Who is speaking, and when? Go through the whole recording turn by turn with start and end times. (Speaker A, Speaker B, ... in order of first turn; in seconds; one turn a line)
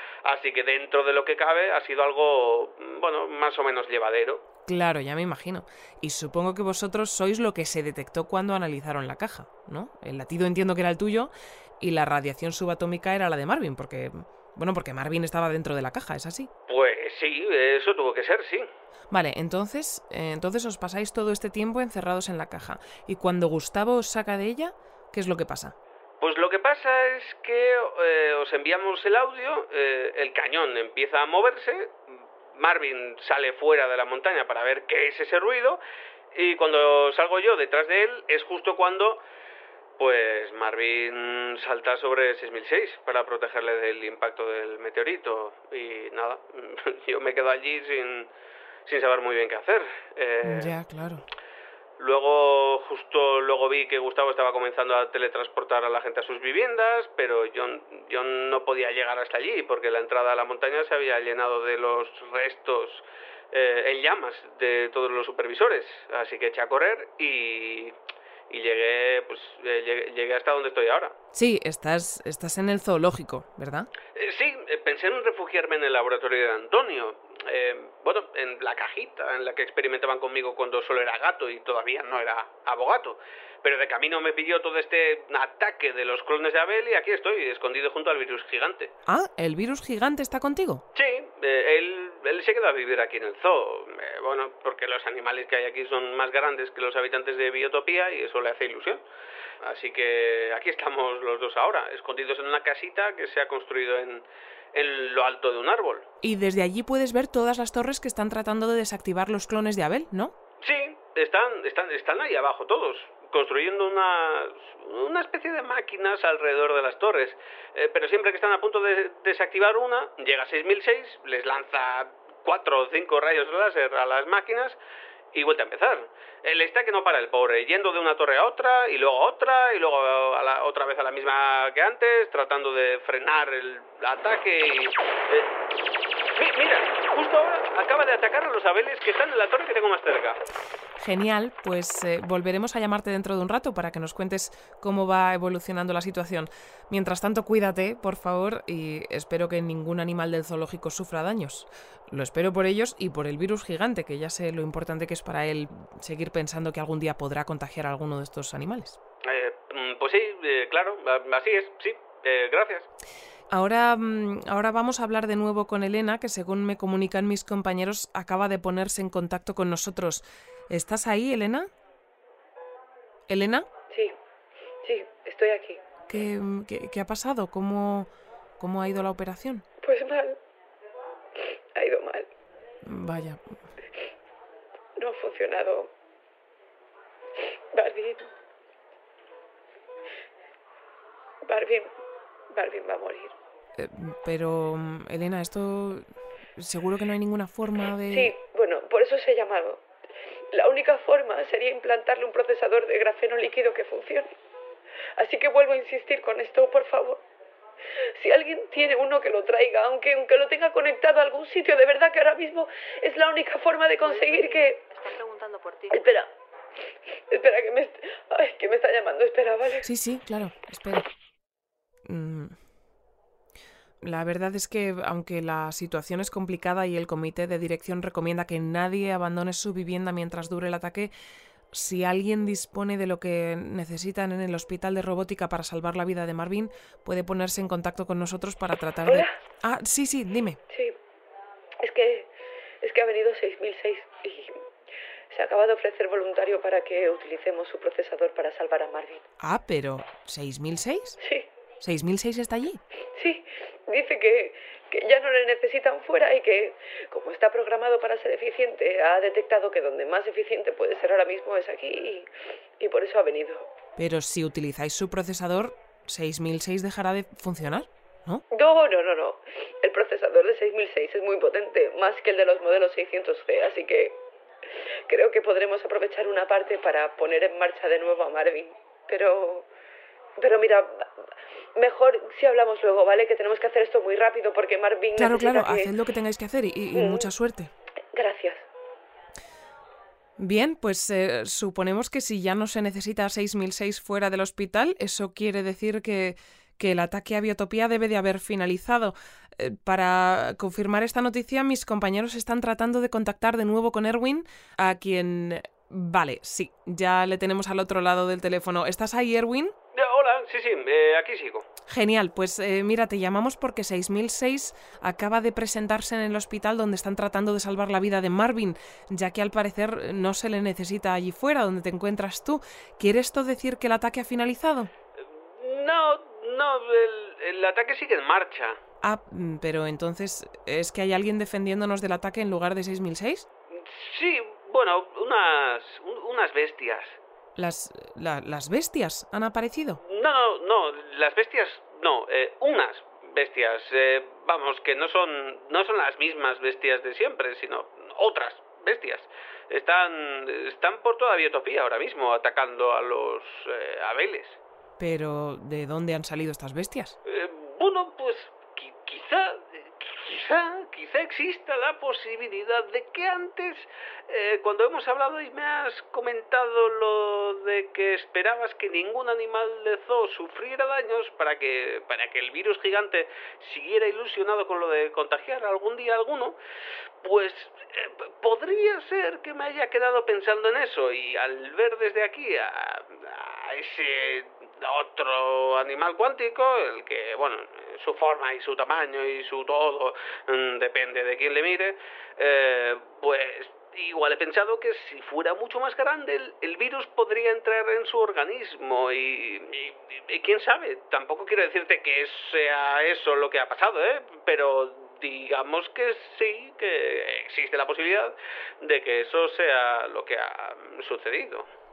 Speaker A: 0.2-4.4
Speaker B: 4.7-16.5
Speaker A: 16.7-18.7
Speaker B: 19.1-25.8
Speaker A: 26.2-32.0
Speaker A: 32.5-35.8
Speaker A: 36.3-39.2
Speaker A: 40.0-48.3
Speaker A: 48.9-50.7
Speaker B: 50.4-51.2
Speaker A: 52.0-68.0
Speaker A: 68.5-71.2
Speaker B: 71.3-73.9
Speaker A: 74.2-88.9
Speaker B: 89.1-90.8
Speaker A: 91.0-99.0
Speaker A: 99.6-106.1
Speaker B: 106.2-110.3
Speaker A: 110.6-124.8
Speaker A: 125.3-135.6
Speaker A: 136.4-140.4
Speaker B: 141.0-159.0
Speaker A: 159.2-162.9
Speaker B: 163.5-171.7
Speaker B: 173.3-173.7
Speaker C: 174.8-175.8
Speaker B: 176.1-179.7
Speaker C: 179.8-180.4
Speaker C: 181.8-182.3
Speaker B: 182.8-183.6
Speaker C: 185.0-185.9
Speaker C: 187.7-188.3
Speaker C: 191.5-191.9
Speaker C: 192.5-193.3
Speaker B: 193.8-198.3
Speaker C: 198.1-199.8
Speaker C: 200.5-204.3
Speaker C: 205.2-207.2
Speaker C: 208.2-214.8
Speaker D: 214.0-216.1
Speaker C: 215.9-216.3
Speaker C: 217.3-219.9
Speaker B: 219.8-221.1
Speaker B: 222.1-222.6
Speaker B: 224.0-231.1
Speaker B: 231.7-240.6
Speaker C: 239.1-239.3
Speaker C: 240.7-241.0
Speaker C: 241.8-242.3
Speaker C: 242.8-244.6
Speaker C: 245.3-249.2
Speaker B: 249.4-251.2
Speaker C: 251.2-251.5
Speaker B: 251.8-252.8
Speaker C: 253.1-262.3
Speaker C: 262.8-263.7
Speaker B: 264.0-268.4
Speaker C: 268.5-274.2
Speaker C: 275.1-279.7
Speaker C: 280.4-281.1
Speaker C: 281.8-285.9
Speaker B: 285.1-287.7
Speaker C: 286.9-287.3
Speaker C: 288.1-288.6
Speaker B: 290.4-309.7
Speaker A: 309.9-311.7
Speaker B: 311.9-324.9
Speaker A: 325.6-328.8
Speaker B: 329.0-333.5
Speaker A: 333.8-337.2
Speaker B: 337.6-340.0
Speaker A: 340.0-354.6
Speaker B: 355.0-357.1
Speaker A: 357.3-376.6
Speaker A: 377.2-411.7